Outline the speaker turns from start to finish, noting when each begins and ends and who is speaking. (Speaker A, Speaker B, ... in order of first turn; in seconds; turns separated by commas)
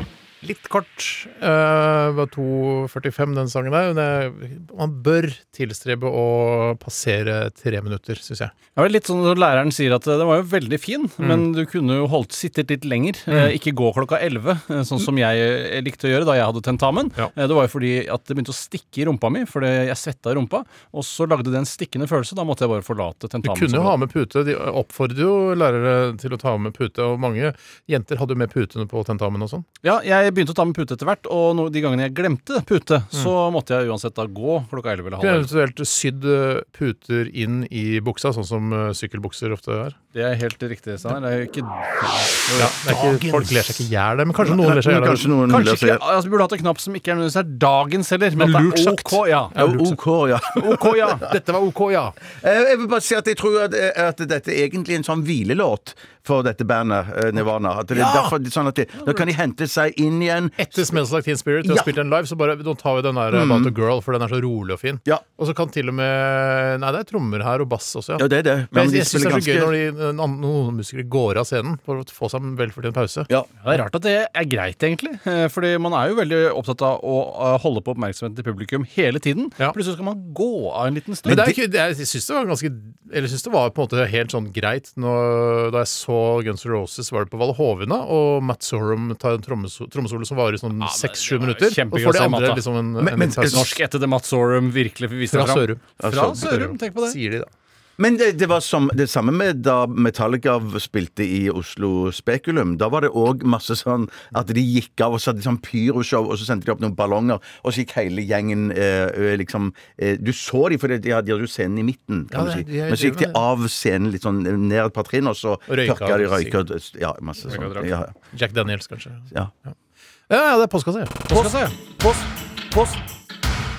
Speaker A: 0.4-8.5, Speaker B: 8.8-23.9, Speaker A: 23.4-29.6, Speaker B: 29.8-35.5, Speaker A: 35.2-40.0, Speaker B: 40.1-43.5, Speaker A: 42.6-45.3, Speaker C: 44.4-46.0, Speaker B: 45.5-49.6, Speaker A: 48.4-50.0, Speaker C: 49.6-51.3, Speaker B: 50.5-51.3, Speaker A: 51.2-52.2, Speaker C: 52.3-60.8, Speaker A: 57.9-58.3, Speaker A: 60.6-73.3, Speaker C: 61.6-61.9, Speaker C: 63.3-63.7, Speaker C: 68.2-69.7, Speaker B: 73.6-81.4, Speaker C: 81.3-81.6, Speaker A: 81.3-93.8, Speaker B: 90.8-92.6, Speaker C: 93.0-93.7, Speaker B: 93.4-97.2, Speaker A: 95.3-97.5, Speaker C: 96.0-96.4, Speaker C: 98.0-118.1, Speaker A: 112.3-113.4, Speaker A: 115.7-116.6, Speaker B: 117.5-117.9, Speaker A: 118.3-119.7, Speaker A: 120.3-121.6, Speaker B: 121.3-123.0